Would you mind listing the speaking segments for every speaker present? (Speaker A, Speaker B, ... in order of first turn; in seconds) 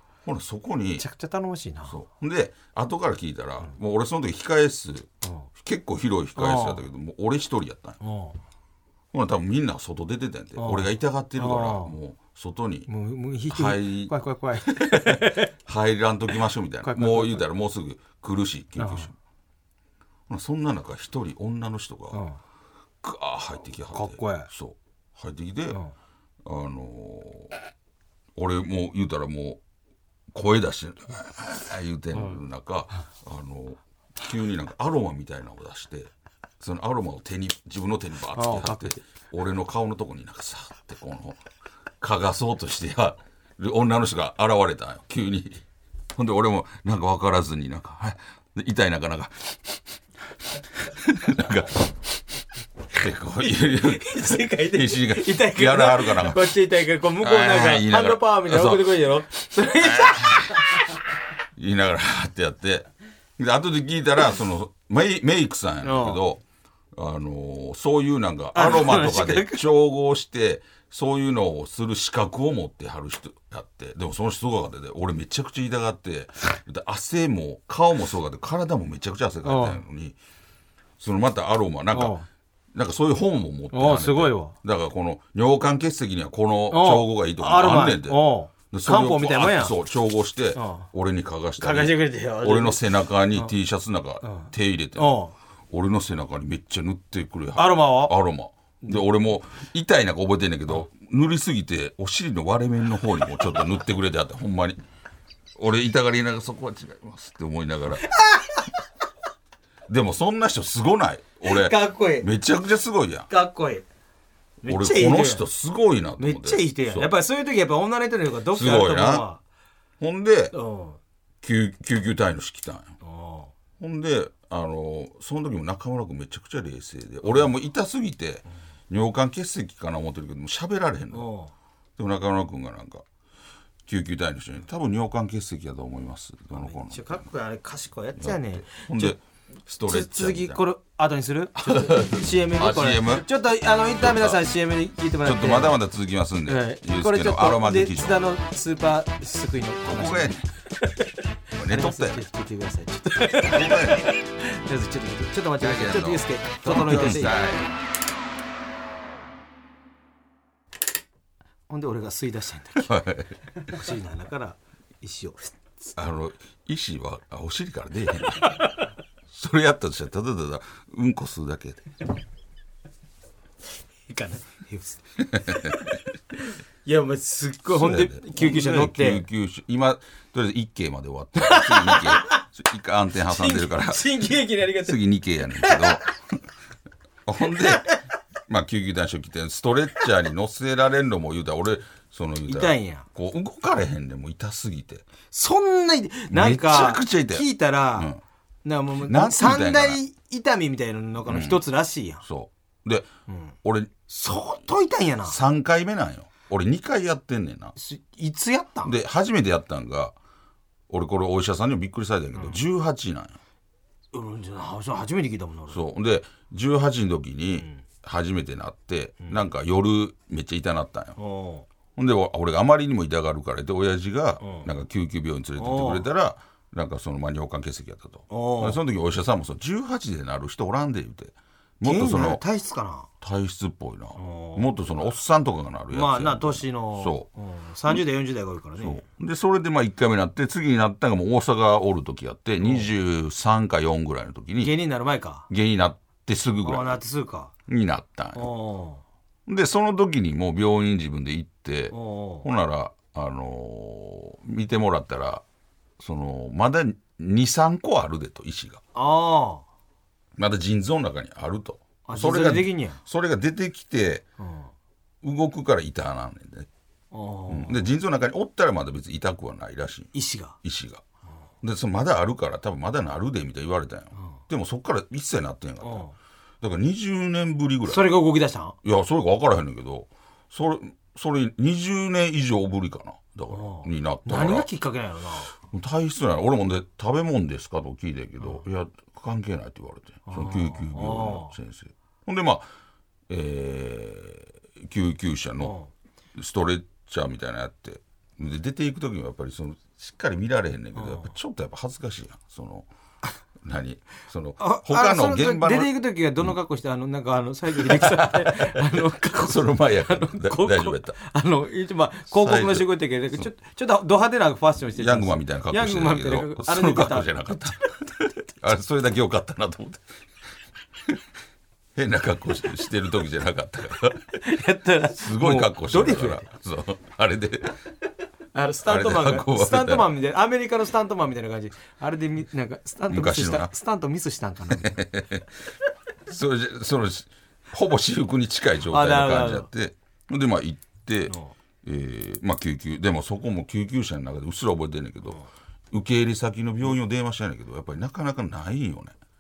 Speaker A: 0.2-1.1, 1.9-8.0, 9.1-12.9, 13.5-14.1, 14.7-19.1, 20.3-22.2, 23.0-25.8, 26.4-27.6, 28.4-29.6, 30.3-41.4, 42.0-45.6, 46.1-49.8, 50.8-51.9, 52.9-56.6, 57.2-59.1, 59.7-60.7, 61.6-66.4, 67.0-80.2, 81.0-82.2, 82.7-95.2, 95.7-104.8, 105.6-108.1, 109.9-113.3, 114.7-117.1, 118.5-119.2, 120.0-120.5, 121.4-122.9, 123.8-131.3, 132.0-133.1, 133.9-137.3, 138.2-140.6, 141.6-143.3, 144.0-144.4, 145.2-148.3, 149.8-150.4, 151.6-152.2, 153.4-154.1, 155.6-157.7, 162.8-163.4, 165.9-168.6, 169.3-171.8, 175.3-175.8, 177.7-184.1, 184.8-186.1, 187.3-187.9, 188.5-195.1, 196.3-198.2, 199.0-200.0, 201.3-201.6, 202.2-203.1, 203.6-203.9, 205.3-207.7, 208.8-210.2, 210.9-213.4, 215.7-221.2, 222.0-232.4, 233.2-237.3, 238.8-244.7, 245.5-247.0, 247.7-248.5, 249.5-255.4, 256.0-258.8, 260.4-264.2, 265.2-266.7, 267.5-271.0, 271.6-276.0, 276.6-278.1, 278.8-284.7, 285.6-292.7, 293.3-295.8, 296.4-302.9, 303.6-306.6, 307.8-311.2, 312.3-313.5, 314.9-320.1, 321.9-324.3, 325.2-327.8, 328.9-330.1, 333.1-333.7, 334.7-335.5, 336.3-345.4, 345.9-349.1
Speaker B: 1.0-2.0, 6.4-6.8, 8.0-8.4, 10.6-11.9, 12.9-15.5, 16.8-17.4, 18.8-19.1, 22.1-22.4, 23.9-24.5, 38.3-39.0, 53.7-61.0, 65.8-66.2, 68.5-69.6, 79.4-79.8, 81.9-82.3, 83.7-84.5, 86.7-89.8, 90.5-90.9, 91.6-92.8, 94.2-95.3, 97.6-98.2, 108.0-108.7, 111.4-112.3, 113.3-113.8, 114.6-115.5, 116.2-119.4, 120.5-121.0, 123.0-123.5, 131.1-131.5, 136.5-139.2, 139.9-145.8, 146.5-151.0, 151.6-157.7, 161.7-163.0, 163.6-165.5, 168.4-168.7, 174.1-176.0, 176.5-179.2, 181.4-182.4, 183.3-185.0, 185.6-186.1, 187.5-188.0, 192.5-193.1, 195.3-198.1, 198.7-202.2, 203.3-203.6, 204.1-205.4, 207.8-208.9, 212.3-212.6, 214.1-215.8, 221.2-221.7, 224.4-224.7, 225.6-226.1, 228.3-228.8, 231.8-233.1, 234.2-234.7, 235.9-239.1, 242.6-242.9, 244.6-245.5, 246.6-247.5, 248.3-249.0, 251.9-252.5, 258.9-259.6, 262.1-263.0, 264.4-264.7, 267.1-267.9, 270.1-270.6, 274.1-274.4, 275.8-276.1, 277.9-278.8, 283.5-285.5, 290.3-291.6, 295.6-295.9, 300.9-301.3, 304.6-318.0, 324.3-326.5, 328.5-335.0, 338.9-339.7, 341.3-341.6